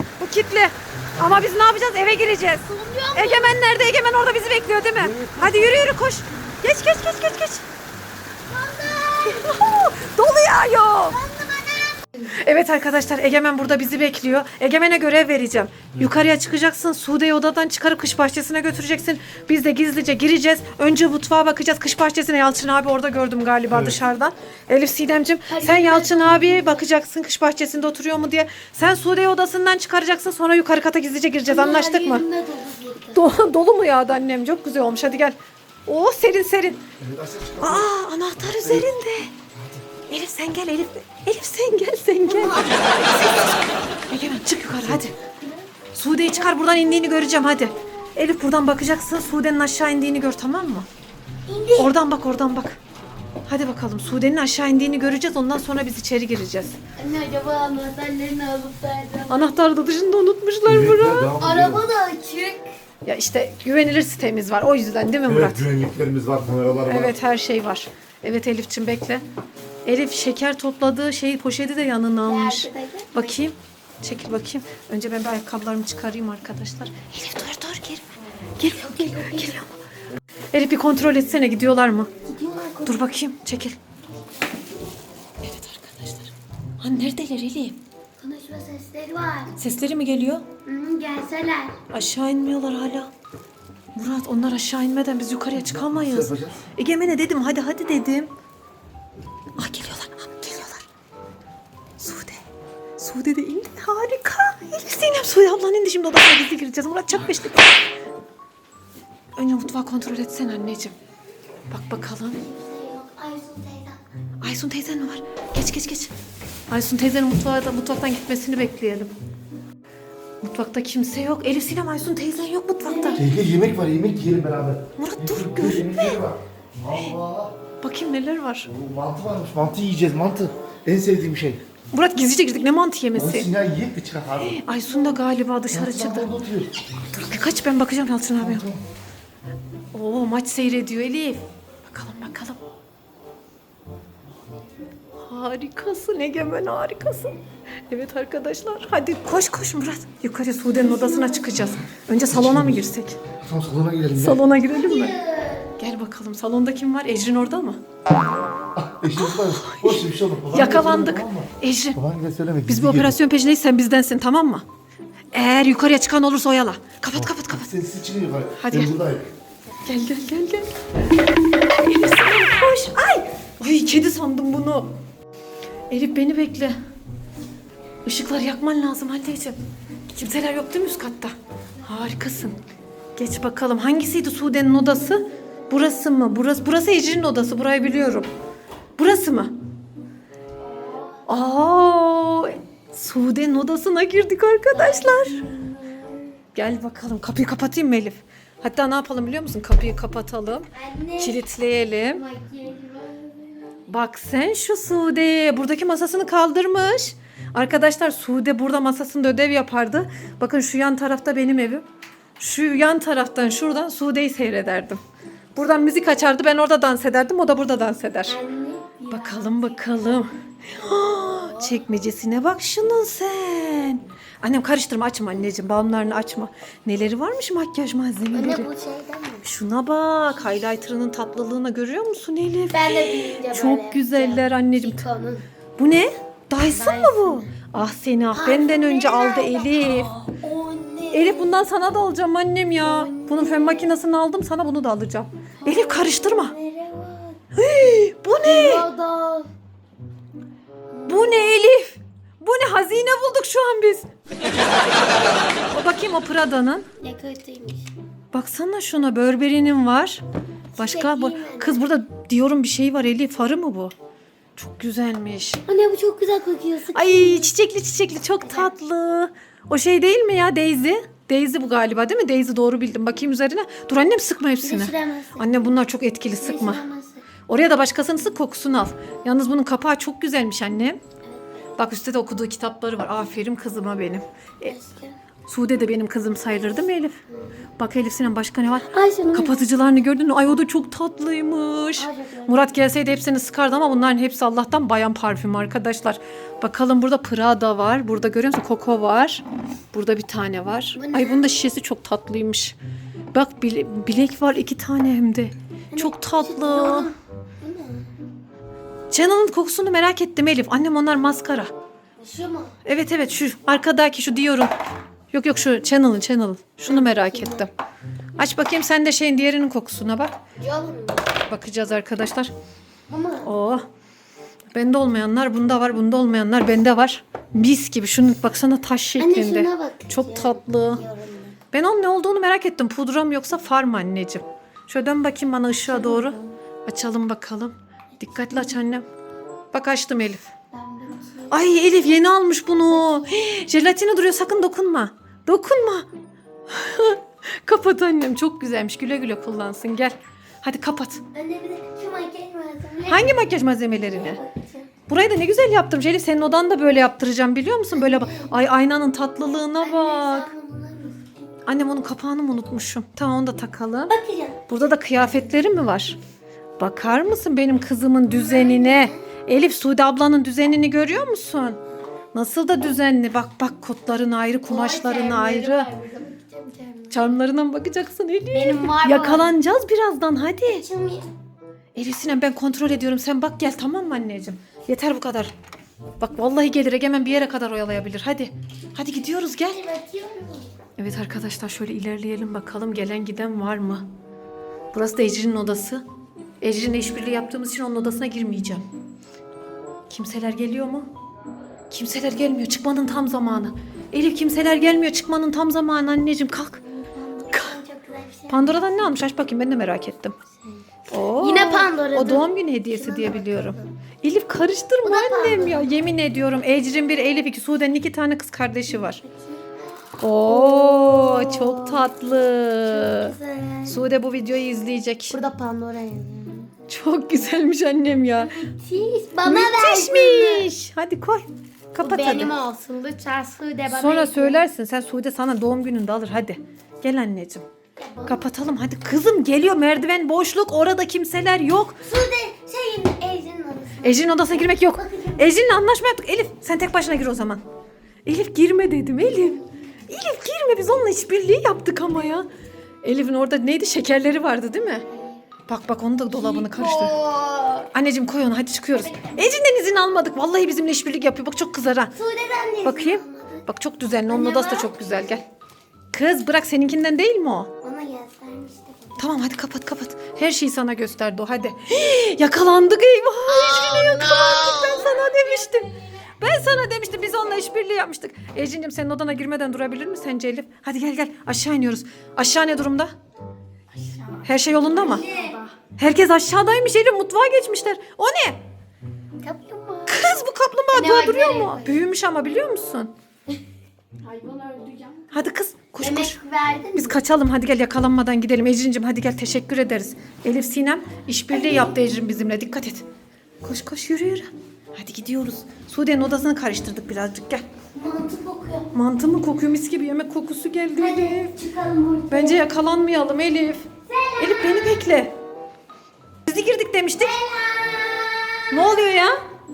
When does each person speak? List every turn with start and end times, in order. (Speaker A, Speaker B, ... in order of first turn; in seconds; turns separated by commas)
Speaker A: 0.2-7.6, Speaker B: 2.6-3.5, Speaker C: 5.0-5.8, Speaker B: 8.5-9.7, Speaker A: 9.2-11.2, Speaker B: 11.1-12.0, Speaker A: 12.3-32.2, Speaker B: 25.5-26.9, Speaker B: 31.5-33.2, Speaker A: 33.1-36.8, Speaker C: 37.0-37.9, Speaker A: 37.6-39.3, Speaker A: 40.1-45.1, Speaker B: 42.2-43.5, Speaker C: 44.7-45.1, Speaker A: 45.9-50.9, Speaker B: 51.5-51.9, Speaker A: 51.8-52.8, Speaker A: 53.5-56.8, Speaker B: 57.0-59.5, Speaker A: 59.3-61.3, Speaker C: 60.6-61.8, Speaker B: 61.4-62.7, Speaker A: 63.0-65.7, Speaker C: 65.2-67.1, Speaker A: 66.9-69.2, Speaker A: 69.8-78.0, Speaker B: 72.2-73.3, Speaker A: 78.6-79.7, Speaker B: 78.6-79.5, Speaker A: 80.5-82.1, Speaker B: 82.2-83.1, Speaker A: 82.8-83.8, Speaker A: 85.4-87.8, Speaker B: 88.2-89.5, Speaker A: 89.6-90.4, Speaker B: 90.7-91.7, Speaker A: 91.9-93.1, Speaker A: 93.9-98.3, Speaker C: 95.6-96.7, Speaker A: 99.6-100.8, Speaker A: 102.0-102.4, Speaker A: 103.0-107.8, Speaker A: 109.3-110.9, Speaker A: 111.7-112.4, Speaker B: 112.4-114.0, Speaker A: 114.4-116.1, Speaker A: 116.7-119.1, Speaker A: 120.4-123.2, Speaker B: 122.8-123.3, Speaker C: 123.2-127.5, Speaker A: 125.0-126.2, Speaker A: 127.8-128.7, Speaker C: 128.7-131.6, Speaker A: 131.9-133.5, Speaker C: 133.1-134.6, Speaker A: 134.4-136.3, Speaker C: 135.7-137.3, Speaker A: 137.1-138.7, Speaker C: 138.4-138.8, Speaker A: 139.9-142.6, Speaker A: 145.2-147.3, Speaker A: 147.9-153.2, Speaker B: 150.7-151.8, Speaker C: 152.3-152.8, Speaker C: 153.4-154.4, Speaker A: 154.1-155.2, Speaker B: 154.7-155.7, Speaker A: 155.8-157.8, Speaker C: 158.8-163.1, Speaker A: 159.1-162.0, Speaker A: 162.7-164.6, Speaker A: 165.3-167.7, Speaker C: 167.2-169.3, Speaker A: 168.6-168.9, Speaker A: 169.8-170.7, Speaker A: 171.7-174.9, Speaker A: 175.9-176.8, Speaker A: 178.0-179.6, Speaker A: 180.1-181.3, Speaker A: 181.8-182.6, Speaker A: 183.2-188.3, Speaker A: 189.0-189.5, Speaker B: 190.6-191.3, Speaker A: 191.3-195.4, Speaker B: 194.7-196.4, Speaker A: 196.5-202.2, Speaker B: 200.7-203.8, Speaker A: 203.9-211.8, Speaker A: 212.4-215.0, Speaker A: 215.6-218.4, Speaker B: 218.3-220.0, Speaker A: 219.1-228.7, Speaker B: 228.3-229.4, Speaker A: 229.4-235.0, Speaker B: 232.7-235.4, Speaker A: 235.8-240.1, Speaker B: 236.7-237.5, Speaker B: 238.3-241.7, Speaker A: 241.1-246.5, Speaker B: 242.8-243.9, Speaker B: 245.6-247.4, Speaker A: 247.5-248.9, Speaker B: 248.4-249.5, Speaker B: 250.9-251.6, Speaker A: 251.1-254.1, Speaker A: 255.7-256.9, Speaker B: 257.0-257.9, Speaker A: 258.3-260.2, Speaker B: 260.8-261.8, Speaker A: 260.8-263.9, Speaker A: 264.6-265.6, Speaker B: 265.7-267.5, Speaker A: 266.9-276.8, Speaker B: 268.4-268.7, Speaker B: 274.6-275.7, Speaker B: 276.4-277.2, Speaker A: 277.5-281.0, Speaker A: 281.8-284.7, Speaker B: 284.6-285.2, Speaker A: 285.5-287.2, Speaker B: 287.3-287.6, Speaker A: 287.8-302.8, Speaker B: 288.9-289.6, Speaker B: 292.0-292.6, Speaker B: 300.9-301.6, Speaker A: 303.3-307.1, Speaker B: 305.9-308.1, Speaker A: 309.1-311.7, Speaker B: 312.2-312.7, Speaker A: 312.8-314.7, Speaker A: 315.3-317.7, Speaker B: 316.9-317.7, Speaker A: 318.4-320.3, Speaker B: 320.6-321.2, Speaker A: 321.5-322.5, Speaker B: 323.1-323.5, Speaker A: 323.4-323.8, Speaker A: 324.7-331.0, Speaker B: 329.2-331.6, Speaker A: 331.7-339.0, Speaker B: 335.9-336.5, Speaker A: 339.7-340.4, Speaker B: 340.7-342.1, Speaker A: 341.5-346.1, Speaker A: 346.7-351.2, Speaker B: 351.3-354.9, Speaker A: 353.1-354.4, Speaker A: 355.1-360.5, Speaker B: 357.9-358.5, Speaker B: 359.8-361.4, Speaker A: 361.6-364.1, Speaker B: 364.1-364.6, Speaker A: 364.7-366.2, Speaker A: 366.8-371.8, Speaker B: 368.3-369.2, Speaker A: 372.3-375.9, Speaker B: 374.7-377.4, Speaker A: 377.1-380.8, Speaker B: 378.5-379.5, Speaker B: 380.6-381.3, Speaker A: 381.9-385.5, Speaker A: 386.2-389.8, Speaker B: 389.3-390.7, Speaker A: 391.0-394.1, Speaker A: 394.9-396.0, Speaker A: 396.6-398.8, Speaker A: 400.1-401.1, Speaker A: 401.9-406.8, Speaker B: 406.8-408.8, Speaker A: 407.5-407.8, Speaker A: 408.5-410.3, Speaker B: 410.6-413.9, Speaker A: 411.1-419.2, Speaker B: 415.0-415.9, Speaker B: 419.2-419.7, Speaker A: 420.2-423.3, Speaker B: 420.2-422.1, Speaker B: 422.9-424.0, Speaker A: 423.9-425.4, Speaker B: 425.3-426.7, Speaker A: 426.9-428.6, Speaker B: 428.4-430.7, Speaker A: 429.4-432.5, Speaker B: 432.0-434.7, Speaker A: 433.9-437.6, Speaker B: 438.0-438.4, Speaker A: 438.2-442.0, Speaker B: 442.0-445.7, Speaker A: 444.0-447.6, Speaker A: 448.2-452.5, Speaker A: 453.0-455.0, Speaker B: 455.1-455.4, Speaker A: 455.7-457.1, Speaker B: 456.3-457.9, Speaker A: 457.9-462.1, Speaker B: 459.0-459.4, Speaker B: 462.1-463.6, Speaker A: 462.8-465.4, Speaker B: 464.3-465.4, Speaker A: 466.1-467.7, Speaker B: 467.8-469.2, Speaker A: 469.2-483.1, Speaker B: 473.5-475.3, Speaker B: 483.9-485.7, Speaker A: 484.4-485.2, Speaker A: 485.9-488.6, Speaker B: 489.4-490.2, Speaker A: 490.1-493.1, Speaker B: 490.9-492.0, Speaker B: 494.2-495.2, Speaker A: 495.3-496.4, Speaker B: 496.0-497.2, Speaker A: 496.9-503.0, Speaker B: 501.5-502.0, Speaker A: 503.6-507.6, Speaker B: 507.9-508.9, Speaker A: 508.9-511.6, Speaker B: 511.0-512.6, Speaker A: 512.3-513.9, Speaker B: 514.1-514.9, Speaker A: 514.4-515.3, Speaker A: 516.5-517.4, Speaker B: 517.2-519.3, Speaker A: 518.7-519.4